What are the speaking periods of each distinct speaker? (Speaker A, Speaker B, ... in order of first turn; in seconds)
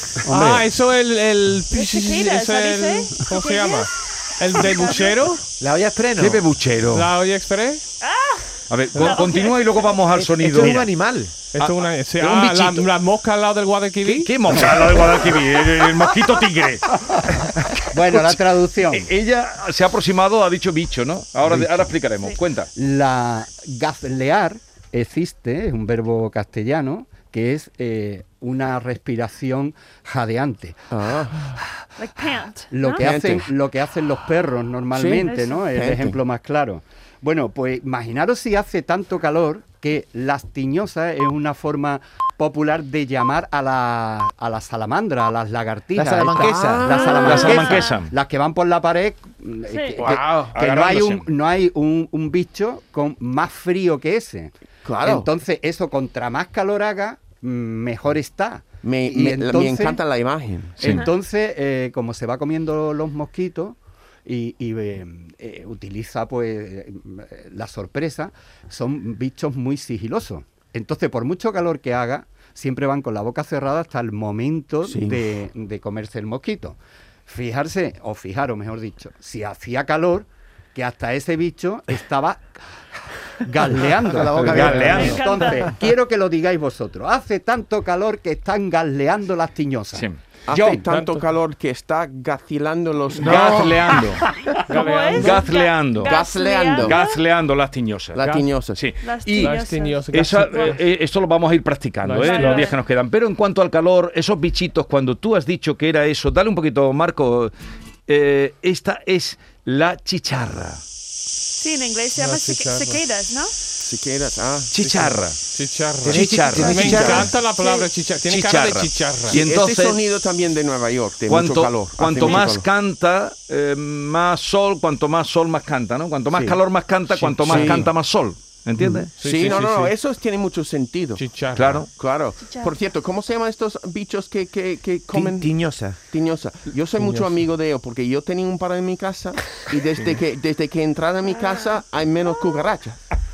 Speaker A: 0.2-0.7, 10.6-10.8, 17.9-19.1, 21.5-21.9, 22.7-30.9, 32.7-60.0, 60.8-82.5, 83.4-90.9
Speaker B: 0.3-5.4, 6.9-7.8, 11.5-14.3, 90.9-91.2, 94.7-95.5, 99.3-100.8, 102.0-102.7, 112.2-113.0, 115.5-119.4, 127.1-127.9, 129.2-129.9, 131.2-131.8
Speaker C: 1.7-3.9, 4.5-5.2, 8.0-10.1, 32.0-33.0, 35.2-35.6, 46.9-47.9, 49.7-50.0, 84.9-85.7, 94.7-97.2, 99.0-100.8, 102.2-102.8, 111.5-113.5, 117.6-117.9, 122.2-122.5, 132.4-132.7, 141.2-141.8
Speaker D: 5.6-6.4, 10.1-11.3, 46.0-46.9, 84.0-85.2, 93.2-94.0, 116.0-117.3, 126.3-126.6, 128.8-129.0, 135.1-135.9
Speaker E: 6.2-7.1, 8.7-10.8, 11.6-12.9, 14.0-22.7, 47.2-48.1, 50.0-51.2, 84.3-85.5, 89.9-90.2, 93.2-94.2, 95.1-96.1, 96.8-98.2, 98.7-107.5, 108.1-110.8, 114.7-115.4, 116.0-117.3, 118.2-120.0, 121.3-129.5, 131.5-131.9
Speaker F: 30.9-31.5, 33.0-33.5, 34.9-36.2, 46.3-47.8, 50.0-50.5, 54.8-55.3, 58.8-60.8, 74.8-75.2, 90.5-93.9, 96.0-97.0, 98.1-98.8, 113.8-115.2, 119.3-122.7, 127.4-127.9, 129.2-131.2, 131.9-135.5, 136.1-143.0